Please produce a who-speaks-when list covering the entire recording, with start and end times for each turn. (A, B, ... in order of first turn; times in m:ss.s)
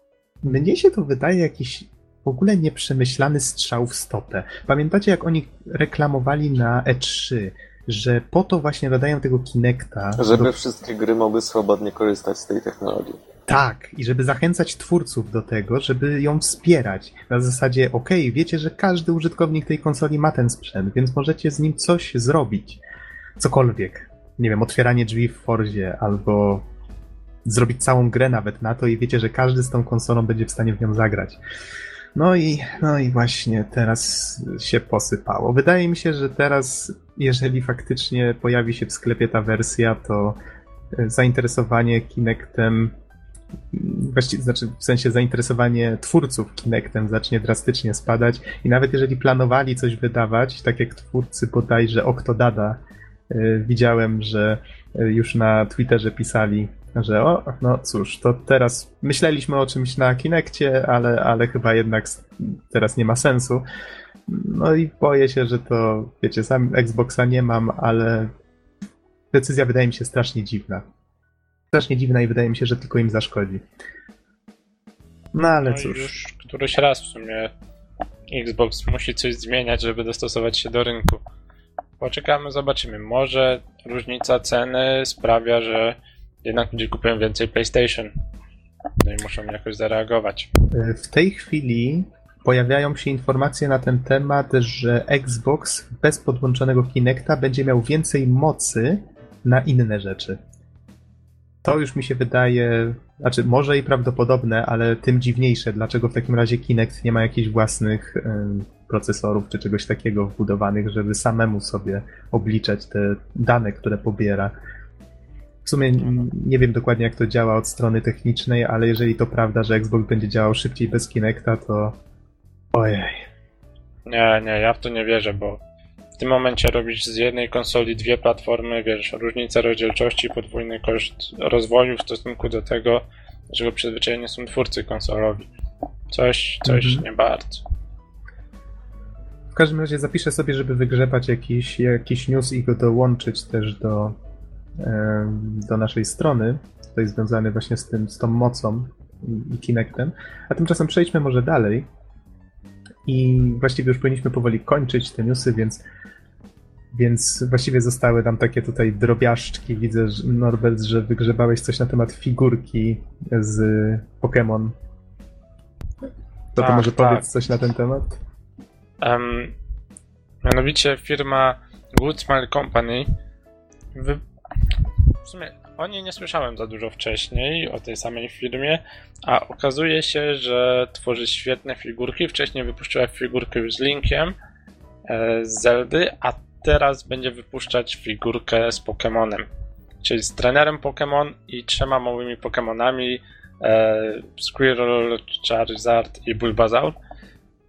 0:00.4-0:10.5 A
0:10.2-0:13.2 B
0:13.5-0:22.8 A
0:23.4-0:26.6 A
0:27.4-0:31.4 A
0:32.2-0:40.4 A
0:40.9-0:42.9 A
0:43.7-1:03.6 A
1:04.3-1:08.3 A
1:09.3-1:10.8 A
1:11.7-1:13.6 A
1:15.3-1:16.1 A
1:15.6-1:17.5 C
1:18.3-1:21.2 C
1:22.0-1:28.1 C
1:29.0-1:30.5 C
1:30.7-1:40.4 A
1:41.6-1:54.5 A
1:55.6-2:02.0 A
2:02.7-2:03.2 A
2:04.1-2:05.6 C
2:06.2-2:15.5 C
2:16.1-2:17.6 C
2:16.7-2:17.0 A
2:19.6-2:24.2 A
2:24.8-2:31.9 A
2:33.1-2:35.8 A
2:36.9-2:44.8 A
2:46.6-2:48.2 A
2:46.6-2:47.2 C
2:49.0-2:49.5 C
2:50.4-2:53.1 C
2:53.9-2:54.2 C
2:55.2-3:04.4 C
3:05.1-3:09.5 C
3:10.0-3:17.0 C